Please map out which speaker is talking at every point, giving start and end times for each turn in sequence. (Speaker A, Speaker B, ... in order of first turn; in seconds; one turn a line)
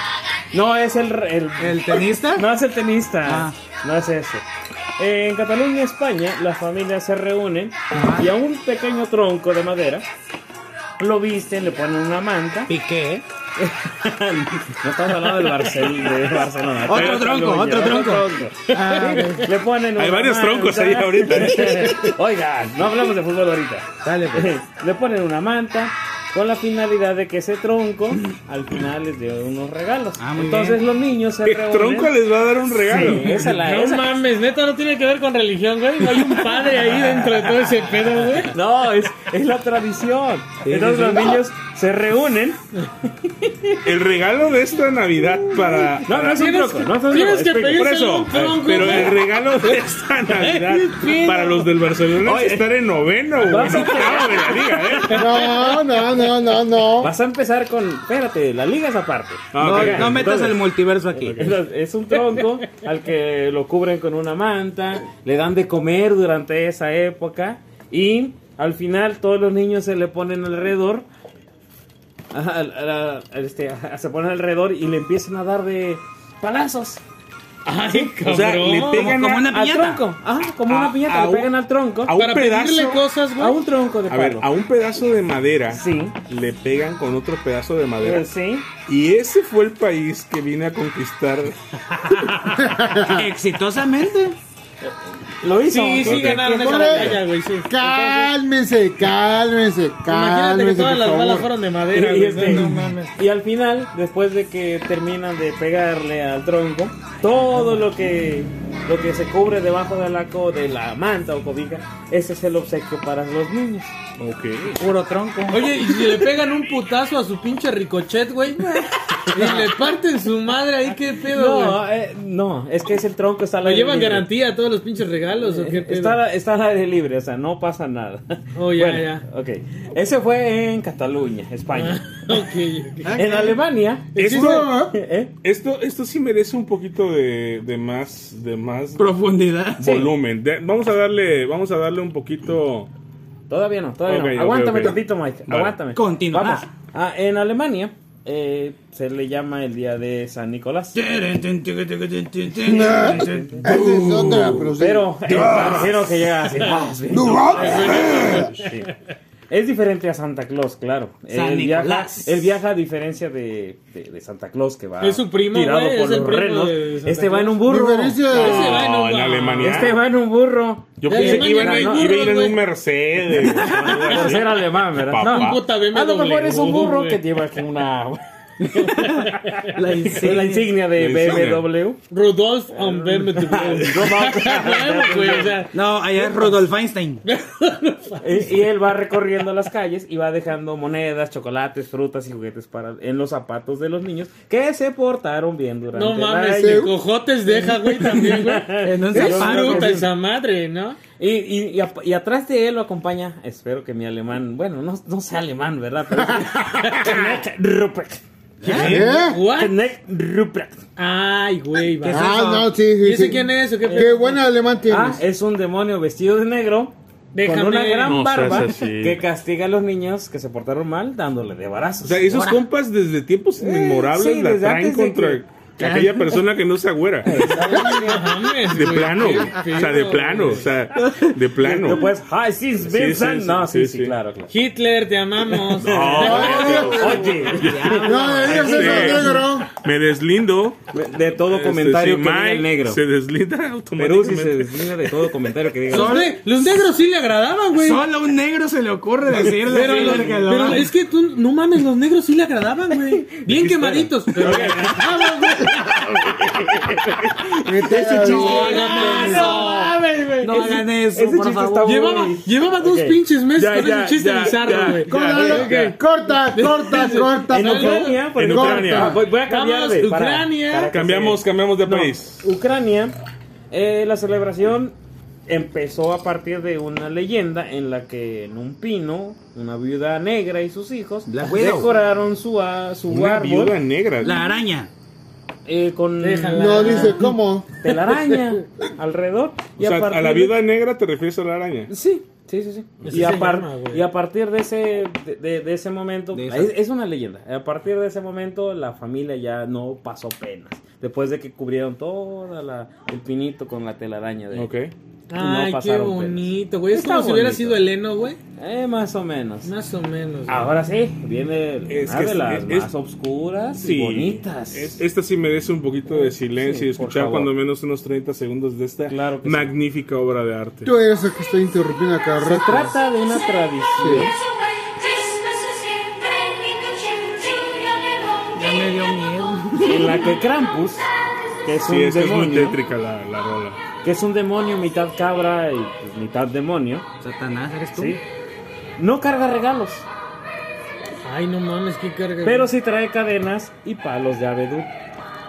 Speaker A: 0.5-4.4
Speaker B: 1.6-2.5
Speaker B: 3.2-3.5
Speaker A: 5.0-10.1
Speaker B: 7.9-8.3
Speaker A: 11.0-12.7
Speaker B: 12.7-13.2
Speaker A: 13.6-32.2
Speaker B: 16.8-19.5
Speaker C: 17.0-17.2
Speaker C: 20.0-22.1
Speaker B: 21.4-22.2
Speaker B: 24.0-24.5
Speaker B: 30.2-30.8
Speaker C: 31.4-33.5
Speaker A: 32.8-34.2
Speaker D: 32.9-38.5
Speaker A: 38.4-43.8
Speaker B: 40.6-41.4
Speaker C: 43.8-46.5
Speaker A: 46.0-49.1
Speaker D: 46.3-49.8
Speaker C: 47.6-55.3
Speaker D: 50.3-51.7
Speaker A: 53.4-55.3
Speaker D: 55.1-55.4
Speaker E: 55.2-57.1
Speaker A: 57.0-60.6
Speaker C: 59.5-60.5
Speaker B: 59.6-61.5
Speaker C: 61.1-61.6
Speaker A: 61.3-71.1
Speaker A: 72.3-77.0
Speaker D: 77.7-79.2
Speaker C: 78.2-79.4
Speaker A: 78.7-82.2
Speaker B: 78.9-80.0
Speaker C: 80.7-81.5
Speaker C: 82.1-83.1
Speaker D: 82.1-83.6
Speaker A: 83.4-84.5
Speaker C: 84.1-88.3
Speaker A: 85.7-86.2
Speaker A: 88.0-88.7
Speaker C: 88.9-91.5
Speaker D: 92.1-92.5
Speaker E: 92.5-93.3
Speaker B: 93.1-94.4
Speaker A: 94.8-97.2
Speaker D: 95.7-98.3
Speaker C: 96.0-96.6
Speaker E: 96.5-101.5
Speaker D: 100.1-102.8
Speaker A: 101.9-113.9
Speaker B: 102.4-103.1
Speaker C: 114.2-114.8
Speaker B: 114.8-115.7
Speaker D: 115.5-121.8
Speaker A: 119.1-119.7
Speaker A: 121.2-124.3
Speaker D: 123.6-126.2
Speaker A: 125.4-132.5
Speaker D: 128.6-129.2
Speaker D: 131.7-133.2
Speaker B: 133.1-133.6
Speaker A: 133.1-135.3
Speaker D: 134.2-134.7
Speaker C: 134.2-134.7
Speaker E: 134.3-135.0
Speaker C: 135.4-139.1
Speaker B: 139.0-140.0
Speaker C: 139.8-142.9
Speaker A: 139.8-140.1
Speaker A: 143.5-151.0
Speaker C: 144.1-145.8
Speaker B: 145.9-146.7
Speaker B: 150.9-154.0
Speaker E: 152.6-155.8
Speaker A: 152.9-153.7
Speaker C: 153.7-154.7
Speaker A: 154.6-158.9
Speaker C: 155.3-155.7
Speaker E: 157.2-158.5
Speaker D: 157.5-158.9
Speaker A: 159.5-168.8
Speaker B: 161.3-162.6
Speaker D: 165.0-167.6
Speaker E: 167.7-168.8
Speaker D: 168.3-169.9
Speaker C: 168.4-170.0
Speaker A: 169.6-172.5
Speaker C: 171.0-175.6
Speaker D: 171.1-172.6
Speaker A: 173.4-182.0
Speaker D: 173.6-174.4
Speaker D: 175.2-177.2
Speaker B: 178.6-180.8
Speaker C: 180.9-181.7
Speaker D: 182.1-185.8
Speaker A: 182.7-185.7
Speaker B: 185.7-187.2
Speaker D: 187.2-188.5
Speaker A: 188.2-196.9
Speaker D: 195.9-201.0
Speaker E: 196.6-196.9
Speaker A: 197.6-200.0
Speaker B: 198.8-200.1
Speaker A: 201.2-208.2
Speaker D: 206.7-207.2
Speaker B: 208.6-209.1
Speaker D: 208.6-209.7
Speaker E: 208.7-209.4
Speaker A: 209.5-210.9
Speaker D: 211.0-212.4
Speaker B: 212.0-212.7
Speaker E: 212.1-215.2
Speaker D: 213.0-214.4
Speaker A: 213.9-214.1
Speaker A: 214.9-222.5
Speaker D: 217.3-218.6
Speaker C: 218.1-219.2
Speaker C: 222.0-227.5
Speaker B: 222.3-222.6
Speaker A: 223.6-225.4
Speaker B: 225.8-226.3
Speaker A: 227.2-228.6
Speaker B: 227.4-228.0
Speaker D: 227.7-230.7
Speaker C: 228.7-232.1
Speaker B: 230.9-232.1
Speaker A: 231.7-234.5
Speaker C: 232.8-234.2
Speaker D: 234.5-237.0
Speaker A: 235.8-238.5
Speaker C: 235.8-237.8
Speaker E: 236.2-237.4
Speaker B: 237.0-239.4
Speaker E: 238.0-239.7
Speaker C: 238.4-240.9
Speaker A: 240.9-243.0
Speaker C: 241.4-244.7
Speaker A: 244.0-246.3
Speaker B: 245.9-246.9
Speaker D: 245.9-248.1
Speaker B: 247.8-250.9
Speaker D: 249.6-255.8
Speaker A: 250.0-250.3
Speaker C: 253.5-254.8
Speaker A: 254.4-263.2
Speaker E: 257.6-259.6
Speaker D: 258.2-260.0
Speaker B: 258.5-259.6
Speaker B: 260.4-262.1
Speaker D: 261.8-268.2
Speaker C: 263.6-265.9
Speaker E: 265.1-269.2
Speaker A: 267.5-273.2
Speaker C: 268.3-269.2
Speaker D: 269.2-270.9
Speaker C: 270.9-272.5
Speaker A: 273.7-274.9
Speaker A: 275.5-283.8
Speaker B: 281.3-281.9
Speaker C: 283.1-284.4
Speaker B: 284.2-284.9
Speaker A: 285.7-287.2
Speaker D: 286.2-287.3
Speaker E: 286.6-287.7
Speaker A: 287.8-290.6
Speaker C: 289.8-291.9
Speaker A: 291.9-304.7
Speaker C: 293.0-293.4
Speaker D: 293.1-294.0
Speaker B: 296.3-296.7
Speaker C: 304.5-304.9
Speaker D: 305.3-308.4
Speaker A: 305.4-307.8
Speaker A: 308.6-309.7
Speaker D: 309.6-310.7
Speaker A: 310.5-315.0
Speaker C: 311.9-312.9
Speaker C: 313.8-320.9
Speaker A: 316.6-317.5
Speaker A: 319.1-319.7
Speaker E: 320.9-323.0
Speaker A: 322.4-324.4
Speaker E: 324.0-324.4
Speaker B: 328.5-330.4
Speaker A: 329.8-331.1
Speaker A: 331.6-332.8
Speaker C: 331.8-333.8
Speaker A: 334.0-337.1
Speaker B: 337.2-338.2
Speaker A: 337.9-338.2
Speaker A: 339.0-340.1
Speaker D: 341.2-342.7
Speaker A: 342.4-344.9